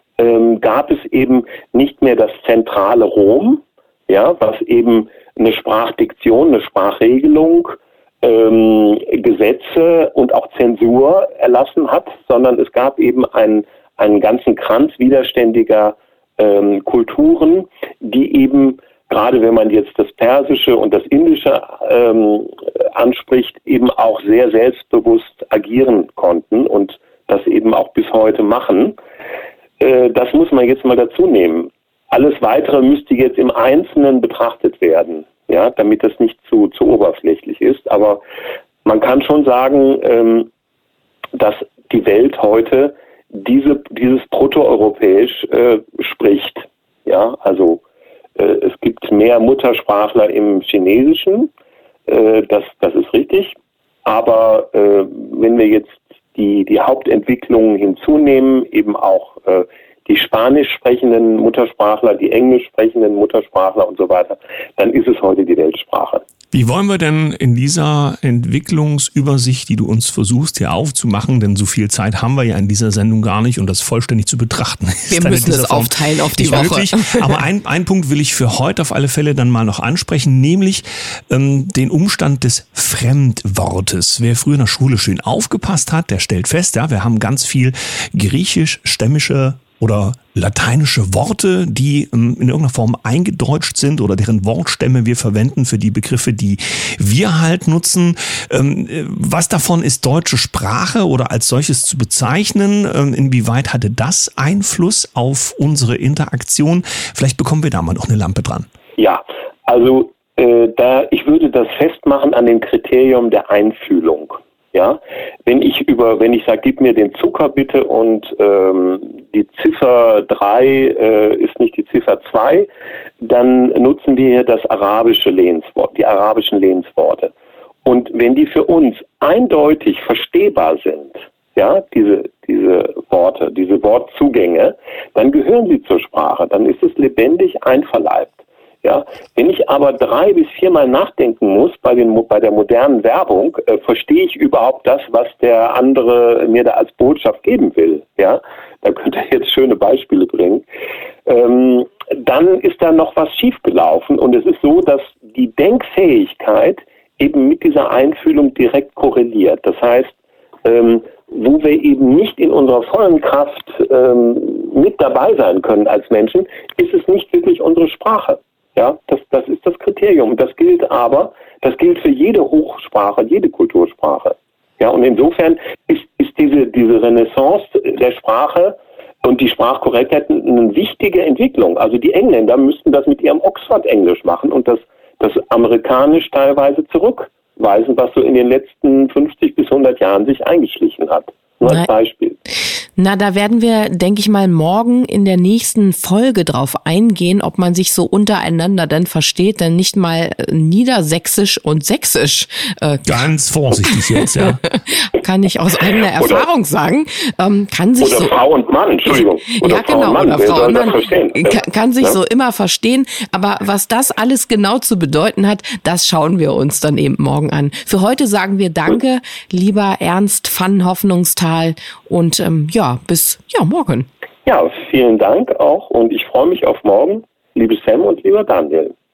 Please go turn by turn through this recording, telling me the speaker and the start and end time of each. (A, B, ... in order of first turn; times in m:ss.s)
0:00.2-0:29.0 A
0:29.8-0:38.2 A
0:38.8-0:40.5 A
0:41.4-0:47.8 A
0:48.4-0:51.5 A
0:52.1-0:53.5 A
0:54.0-1:06.2 A
1:06.5-1:48.7 B
1:15.1-1:17.4 C
1:49.0-2:02.7 A
2:03.2-2:07.3 A
2:07.8-2:30.6 A
2:31.3-2:40.1 A
2:40.6-3:12.4 A
3:13.0-3:23.2 C
3:23.0-3:24.6 B
3:23.8-3:28.4 C
3:26.2-3:26.5 A
3:28.0-3:32.1 A
3:29.1-3:44.1 C
3:44.5-3:48.9 A